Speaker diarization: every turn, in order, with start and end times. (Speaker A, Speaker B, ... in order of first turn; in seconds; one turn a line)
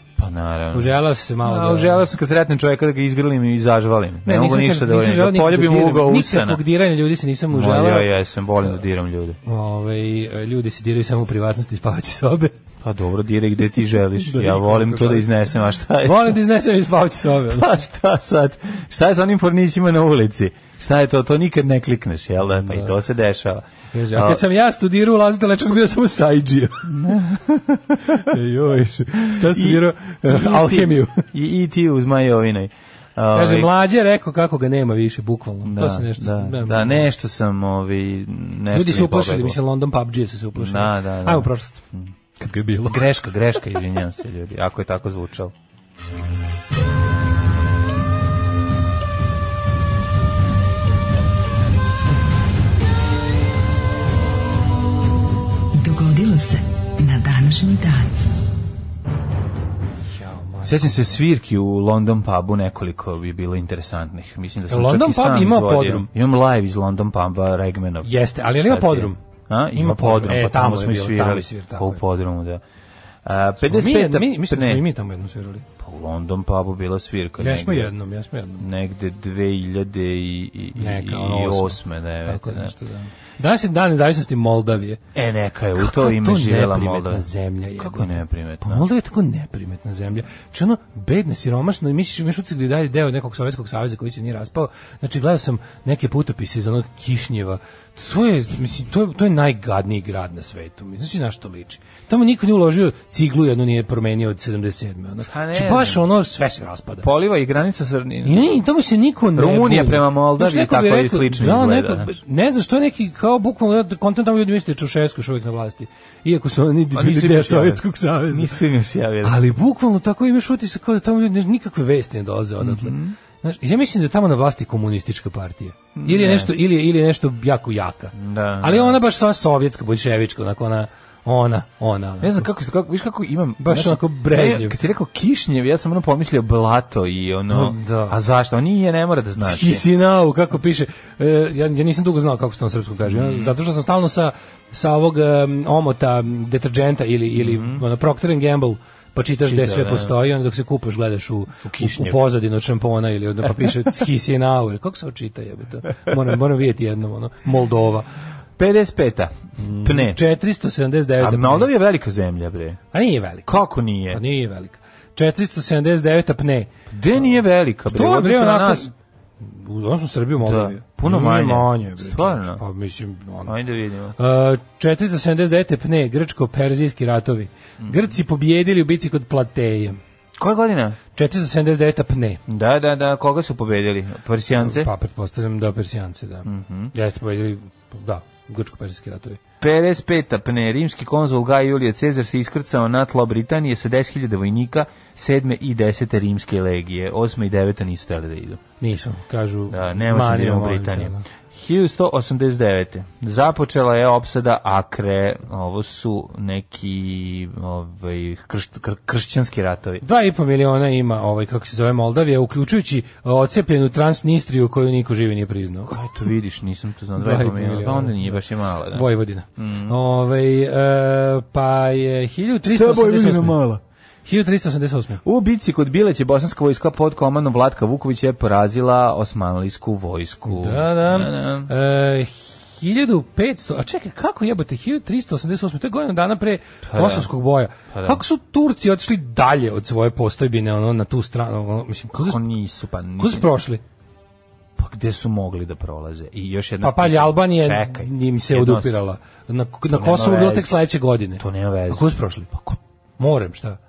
Speaker A: 0.2-6.6
Speaker B: 0.7-2.0
Speaker B: 4.2-8.1
Speaker A: 7.5-9.4
Speaker B: 9.4-12.5
Speaker A: 12.8-16.4
Speaker B: 14.2-15.3
Speaker B: 16.0-17.7
Speaker A: 17.5-24.4
Speaker B: 22.6-22.9
Speaker B: 23.9-26.9
Speaker A: 26.9-28.3
Speaker B: 28.1-31.2
Speaker A: 29.3-33.7
Speaker B: 33.3-37.0
Speaker A: 35.6-39.6
Speaker B: 38.7-41.8
Speaker A: 40.5-42.1
Speaker B: 42.4-43.0
Speaker A: 42.8-45.5
Speaker C: 55.7-58.1
Speaker B: 60.2-61.2
Speaker A: 60.6-72.6
Speaker B: 64.7-66.1
Speaker B: 68.0-69.2
Speaker B: 69.7-72.0
Speaker A: 73.2-74.8
Speaker B: 73.6-75.6
Speaker A: 75.8-77.9
Speaker B: 77.4-78.7
Speaker A: 78.6-82.7
Speaker B: 80.7-85.0
Speaker A: 85.1-87.3
Speaker B: 85.8-107.1
Speaker A: 87.8-88.9
Speaker A: 105.2-106.0
Speaker A: 107.0-108.6
Speaker B: 108.2-118.5
Speaker A: 109.3-112.2
Speaker A: 116.9-119.4
Speaker B: 119.2-132.4
Speaker A: 122.6-123.1
Speaker A: 125.9-126.5
Speaker A: 128.1-129.0
Speaker A: 132.2-139.8
Speaker B: 133.6-134.8
Speaker B: 137.5-138.2
Speaker B: 139.4-158.1
Speaker A: 143.0-143.5
Speaker A: 147.3-147.8
Speaker A: 149.4-150.1
Speaker A: 151.6-152.2
Speaker A: 158.6-160.2
Speaker B: 159.6-161.7
Speaker A: 161.2-162.8
Speaker B: 162.9-163.5
Speaker A: 163.4-164.2
Speaker B: 164.1-166.7
Speaker A: 166.9-168.9
Speaker B: 167.9-173.5
Speaker A: 170.4-172.6
Speaker A: 173.4-174.2
Speaker B: 174.2-180.0
Speaker A: 177.8-178.1
Speaker A: 180.4-181.0
Speaker B: 181.1-182.4
Speaker A: 182.5-184.9
Speaker B: 184.6-189.4
Speaker A: 186.4-186.9
Speaker A: 189.6-198.6
Speaker B: 198.8-201.2
Speaker A: 199.7-210.0
Speaker B: 210.0-215.9
Speaker A: 215.9-220.0
Speaker B: 217.2-218.4
Speaker B: 218.9-223.6
Speaker A: 222.6-223.8
Speaker B: 224.2-225.2
Speaker A: 225.2-231.7
Speaker B: 230.4-242.4
Speaker A: 236.8-237.3
Speaker A: 237.9-238.2
Speaker A: 242.2-243.5
Speaker B: 243.2-243.8
Speaker A: 244.8-248.9
Speaker B: 246.8-253.8
Speaker A: 249.9-250.7
Speaker A: 251.4-252.1